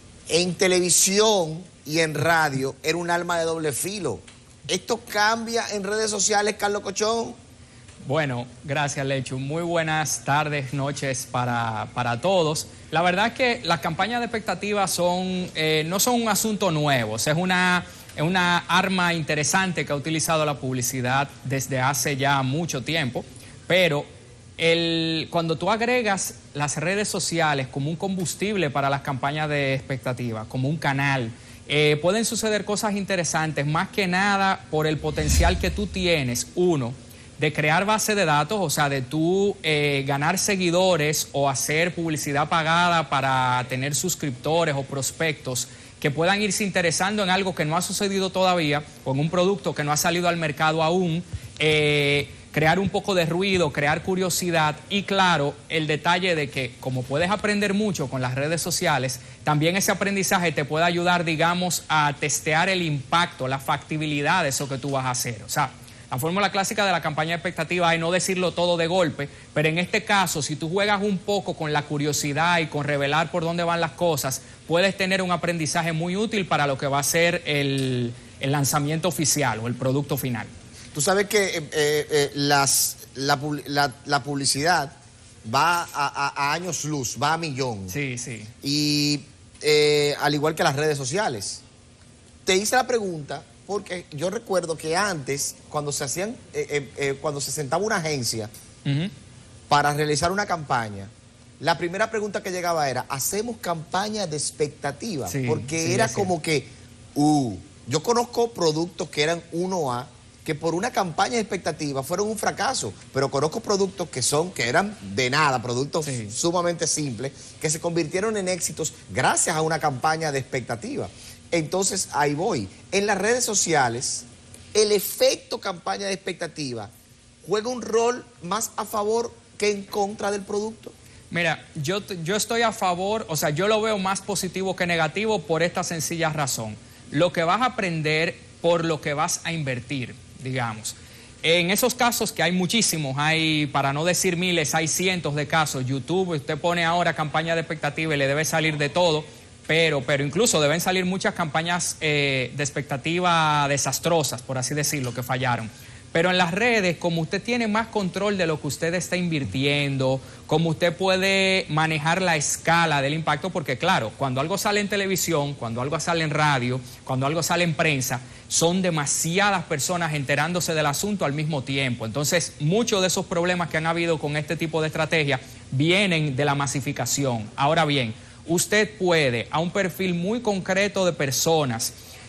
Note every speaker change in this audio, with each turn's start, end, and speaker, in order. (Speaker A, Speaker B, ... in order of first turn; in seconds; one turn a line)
Speaker A: 0.3-7.3
Speaker B: 8.0-24.1
Speaker B: 24.6-80.5
Speaker A: 80.9-88.0
Speaker B: 87.9-88.5
Speaker A: 88.6-91.6
Speaker A: 92.5-98.5
Speaker B: 98.8-99.1
Speaker A: 99.7-126.9
Speaker B: 105.3-106.3
Speaker B: 116.0-116.3
Speaker A: 127.4-130.9
Speaker B: 131.3-181.9